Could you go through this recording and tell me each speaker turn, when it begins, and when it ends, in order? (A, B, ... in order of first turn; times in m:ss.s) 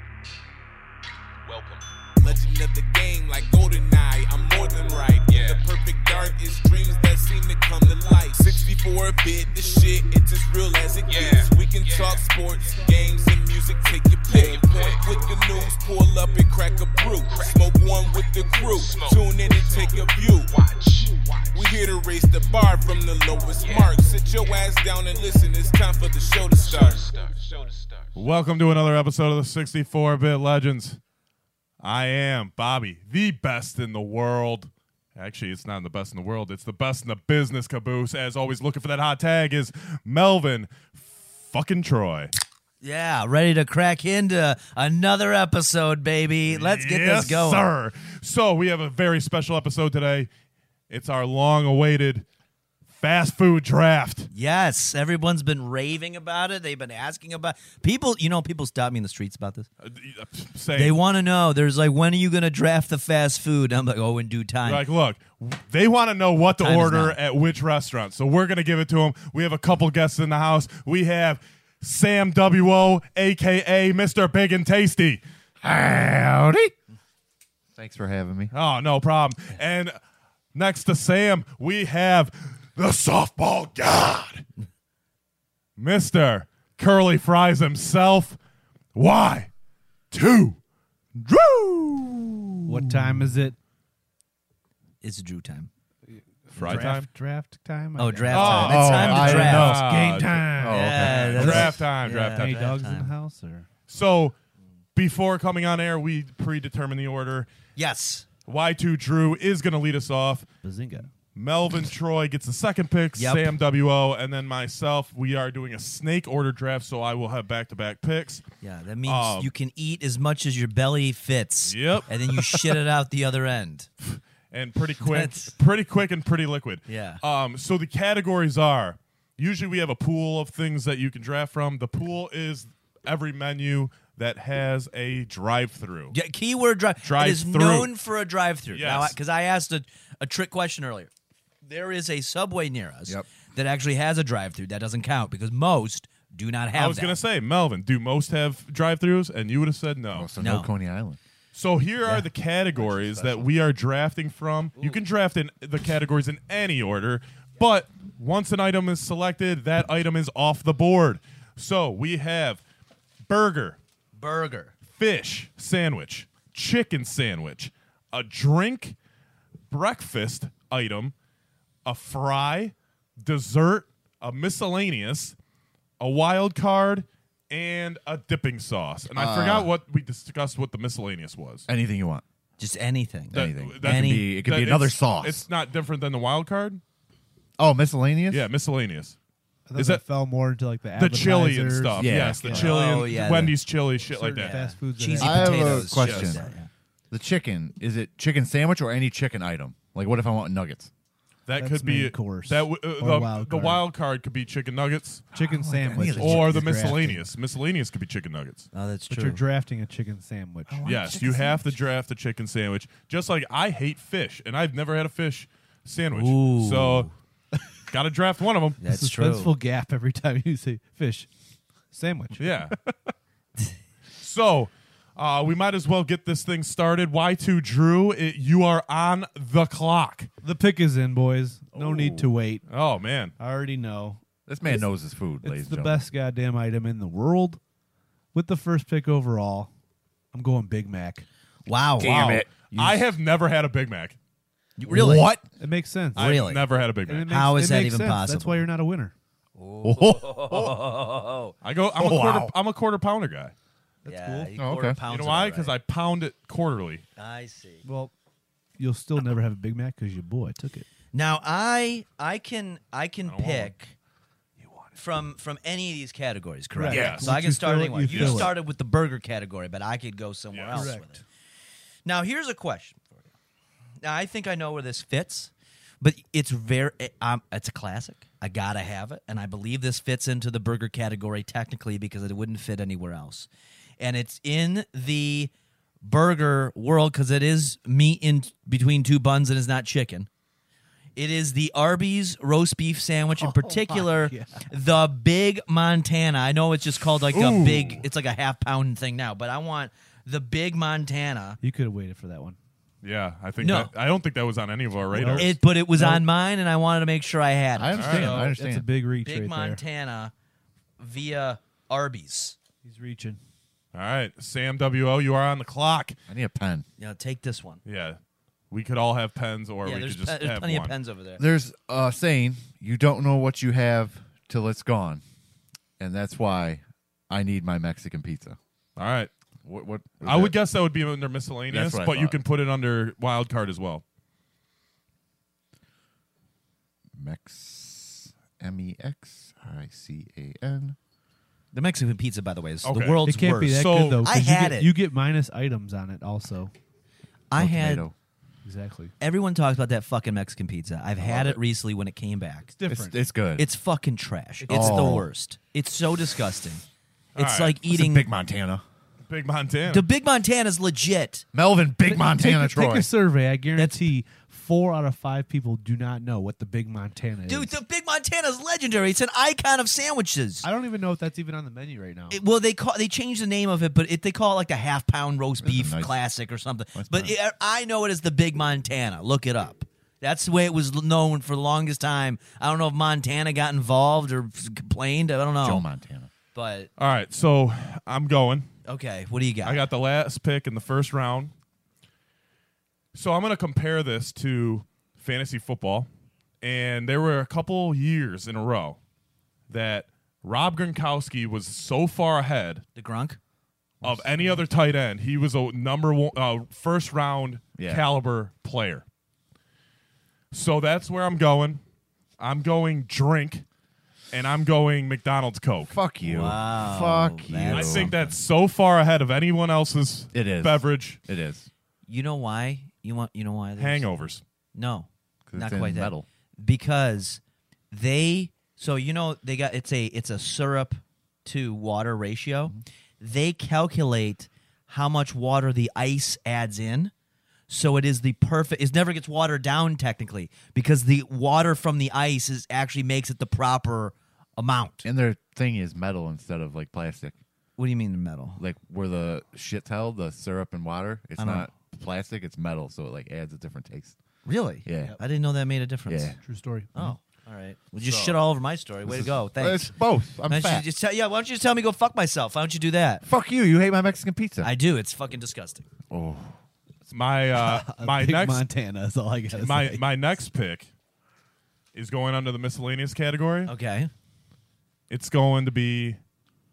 0:01.4-0:02.4 A
0:02.2-0:27.2 B
0:05.2-0:06.4 A
0:07.9-0:08.7 A
0:11.1-0:12.9 A
0:14.3-0:15.8 A
0:17.0-0:21.8 A
0:23.6-0:24.0 A
0:26.6-0:28.2 A
0:28.2-0:31.0 C
0:31.8-0:42.3 C
0:42.8-0:47.6 D
0:46.5-0:50.3 C
0:50.9-0:52.3 C
0:52.9-0:54.3 C
0:54.3-0:59.7 D
0:59.8-1:01.0 C
1:00.8-1:04.8 D
1:04.6-1:15.2 C
1:06.6-1:07.2 D
1:15.6-1:16.7 E
1:17.8-1:18.5 E
1:18.5-1:20.0 C
1:20.5-1:24.4 C
1:25.8-1:28.4 C
1:29.0-1:29.5 C
1:30.1-1:30.6 C
1:31.2-1:32.4 C
1:32.7-1:33.6 F
1:35.0-1:35.7 D
1:36.1-1:43.7 F
1:36.6-1:37.1 C
1:36.6-1:36.9 D
1:38.0-1:39.7 D
1:38.3-1:42.6 C
1:38.6-1:39.9 E
1:40.6-1:41.5 E
1:40.7-1:43.1 D
1:43.9-1:44.4 C
1:45.0-1:47.5 C
1:47.8-1:48.3 D
1:48.5-1:50.5 C
1:50.6-1:51.1 F
1:51.4-1:58.4 C
1:53.2-1:53.6 D
1:58.6-2:03.9 D
1:59.0-1:59.5 C
2:01.7-2:02.1 C
2:04.0-2:16.2 C
2:05.0-2:05.5 D
2:06.9-2:07.2 D
2:16.1-2:21.1 D
2:17.0-2:17.9 C
2:18.7-2:19.2 C
2:21.6-2:27.2 D
2:26.7-2:30.3 C
2:30.1-2:31.2 E
2:30.4-2:30.7 D
2:31.5-2:42.6 C
2:32.8-2:33.5 E
2:34.8-2:35.0 D
2:43.2-2:43.8 C
2:44.1-2:44.7 D
2:44.9-2:49.0 C
2:49.7-2:51.1 C
2:51.8-2:55.4 C
2:56.0-3:01.7 C
2:59.1-2:59.7 E
3:01.7-3:02.2 E
3:02.6-3:04.3 D
3:03.3-3:05.4 E
3:03.3-3:06.8 C
3:07.6-3:08.5 E
3:08.3-3:09.2 C
3:09.7-3:13.0 F
3:09.8-3:10.0 C
3:11.0-3:14.6 C
3:12.0-3:12.8 E
3:12.5-3:13.6 D
3:14.0-3:16.1 F
3:14.4-3:16.7 D
3:15.2-3:16.4 E
3:15.9-3:16.4 C
3:17.1-3:20.9 E
3:21.5-3:25.2 C
3:21.6-3:23.8 F
3:25.3-3:27.0 E
3:25.3-3:27.2 F
3:26.2-3:28.7 C
3:28.7-3:29.4 D
3:29.1-3:30.8 F
3:30.7-3:31.8 E
3:30.8-3:37.1 C
3:36.1-3:37.1 D
3:37.9-3:38.8 C
3:38.8-3:39.6 D
3:38.8-3:41.3 F
3:41.9-3:42.9 F
3:42.4-3:42.8 C
3:44.2-3:50.3 C
3:50.4-3:52.6 F
3:51.7-3:52.4 E
3:52.7-3:53.3 C
3:53.4-3:54.8 F
3:54.5-3:56.0 E
3:55.4-3:57.6 F
3:58.3-3:59.7 F
4:00.3-4:01.2 F
4:01.7-4:03.0 D
4:02.0-4:02.5 E
4:02.7-4:04.2 C
4:04.8-4:05.3 D
4:04.9-4:05.4 E
4:05.6-4:06.4 F
4:06.2-4:06.7 D
4:06.2-4:07.3 C
4:07.1-4:09.1 F
4:07.2-4:08.7 D
4:09.6-4:11.6 D
4:09.8-4:10.8 E
4:11.6-4:13.5 C
4:12.0-4:12.5 E
4:14.0-4:14.5 F
4:14.0-4:15.8 D
4:14.6-4:15.0 E
4:15.1-4:17.0 C
4:17.2-4:17.8 D
4:17.8-4:18.1 F
4:18.8-4:20.9 F
4:21.1-4:24.0 D
4:23.2-4:23.7 C
4:25.0-4:31.2 D
4:26.8-4:28.5 F
4:26.9-4:27.3 C
4:28.1-4:28.5 C
4:30.5-4:30.9 C
4:30.7-4:31.2 F
4:32.0-4:33.3 D
4:34.0-4:45.5 D
4:46.0-4:50.3 D
4:51.2-5:01.6 D
4:53.4-4:54.7 F
4:57.3-4:58.0 C
5:01.6-5:02.6 F
5:03.0-5:05.6 C
5:03.6-5:03.9 D
5:05.1-5:06.2 F
5:05.3-5:08.5 D
5:07.7-5:08.8 E
5:07.9-5:08.5 C
5:08.2-5:09.8 F
5:09.2-5:10.3 D
5:11.0-5:12.6 D
5:12.8-5:13.4 F
5:13.9-5:16.2 C
5:16.3-5:16.8 E
5:17.0-5:17.8 D
5:17.8-5:18.2 C
5:18.7-5:20.9 C
5:19.8-5:21.4 D
5:21.4-5:25.2 E
5:26.0-5:28.6 E
5:29.0-5:29.3 C
5:29.6-5:30.6 E
5:30.2-5:34.0 C
5:31.7-5:32.4 E
5:37.2-5:41.0 E
5:41.7-5:44.9 D
5:42.8-5:44.2 C
5:43.2-5:46.7 F
5:47.5-5:48.1 D
5:47.6-5:48.1 E
5:48.6-5:49.1 F
5:49.2-5:52.7 D
5:51.2-5:51.6 E
5:52.7-5:53.2 F
5:52.9-5:53.7 E
5:53.6-5:56.8 D
5:54.6-5:55.2 F
5:54.7-5:55.3 E
5:57.4-5:57.8 C
5:57.4-5:58.3 D
5:57.8-5:58.8 E
5:59.3-6:00.1 C
5:59.9-6:01.4 D
6:01.5-6:03.1 E
6:02.1-6:07.8 F
6:03.8-6:04.1 D
6:07.5-6:10.7 D
6:10.6-6:12.4 F
6:12.3-6:25.8 D
6:15.6-6:16.2 E
6:17.0-6:17.3 E
6:25.6-6:26.3 E
6:26.5-6:26.9 D
6:27.0-6:28.7 C
6:28.8-6:29.9 D
6:29.6-6:31.5 C
6:33.1-6:36.1 C
6:36.6-6:39.0 C
6:39.7-6:42.8 C
6:43.0-6:43.4 D
6:44.0-6:44.6 E
6:44.0-6:49.0 C
6:47.8-6:48.0 E
6:50.5-6:51.8 C
6:52.4-6:53.6 C
6:54.3-6:56.0 C
6:55.9-6:58.1 E
6:56.2-6:58.4 D
6:57.7-7:01.2 C
7:00.3-7:01.7 E
7:02.1-7:17.1 D
7:03.8-7:04.4 C
7:05.5-7:06.3 E
7:17.7-7:25.1 D
7:25.0-7:27.4 E
7:27.8-7:28.6 D
7:28.6-7:34.2 E
7:31.4-7:31.7 D
7:34.4-7:36.4 D
7:34.8-7:35.2 E
7:36.1-7:36.4 E
7:36.4-7:36.9 F
7:37.0-7:39.9 D
7:38.0-7:38.4 C
7:39.0-7:40.9 E
7:40.5-7:43.2 D
7:43.2-7:44.7 E
7:44.6-7:45.9 D
7:46.1-7:46.6 E
7:47.1-7:48.7 C
7:47.5-7:50.2 F
7:49.5-7:50.9 C
7:51.9-7:53.7 C
7:53.6-7:54.1 D
7:55.1-7:56.2 C